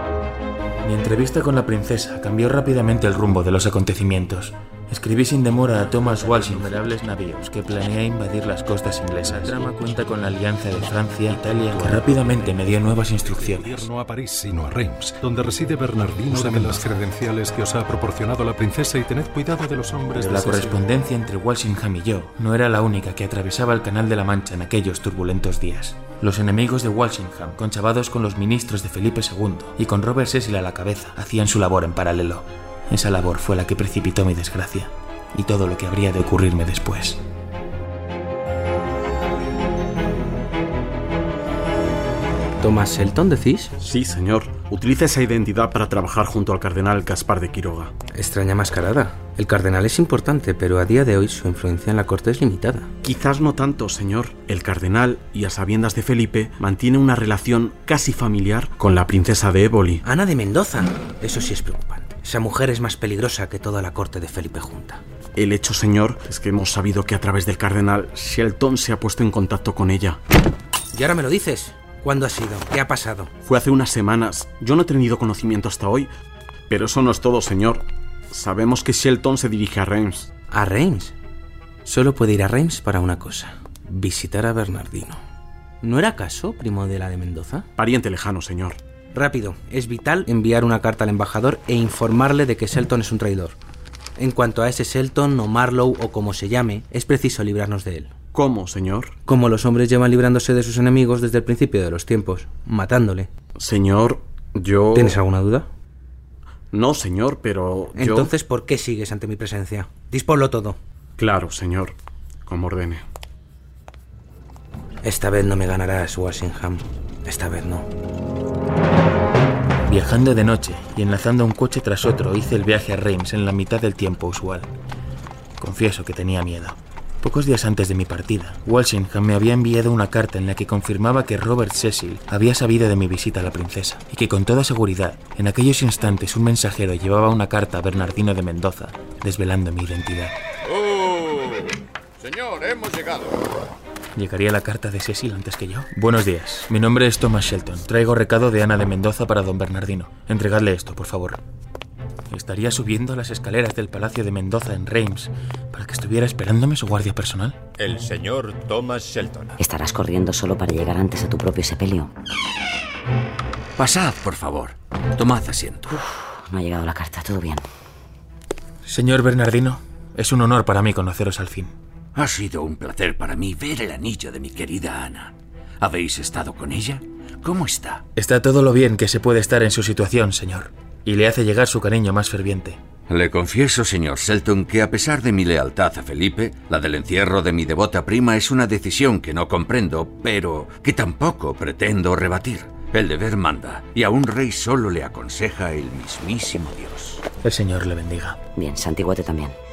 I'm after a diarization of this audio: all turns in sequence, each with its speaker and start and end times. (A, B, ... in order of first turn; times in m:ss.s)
0:00.8-0:13.9 A
0:11.7-0:20.8 B
0:20.1-0:37.2 A
0:42.6-0:43.7 C
0:43.8-0:47.9 D
0:48.1-0:52.9 C
0:53.0-1:00.0 D
1:00.0-1:05.0 C
1:05.3-1:10.2 D
1:10.9-1:13.3 C
1:13.4-1:16.1 D
1:16.7-1:20.3 D
1:20.5-1:21.1 C
1:21.8-1:25.2 C
1:25.8-1:27.7 C
1:27.8-1:28.8 D
1:29.1-1:33.6 C
1:34.2-1:38.1 C
1:38.3-1:39.1 D
1:39.2-1:43.3 C
1:43.5-1:45.2 D
1:44.9-1:45.7 C
1:46.7-1:48.3 D
1:47.9-1:50.8 C
1:51.2-1:51.9 D
1:52.4-1:53.0 D
1:55.0-1:57.9 C
1:59.9-2:04.7 A
2:05.6-2:20.3 A
2:21.0-2:21.4 E
2:22.2-2:23.3 E
2:24.1-2:31.4 A
2:32.3-2:37.6 A
2:37.8-2:39.6 E
2:39.6-2:42.1 F
2:43.8-2:46.0 G
2:45.9-2:47.6 F
2:48.8-2:51.7 A
2:52.1-2:58.0 G
2:58.2-3:02.8 A
3:03.1-3:17.2 G
3:17.4-3:18.4 A
3:18.5-3:19.6 F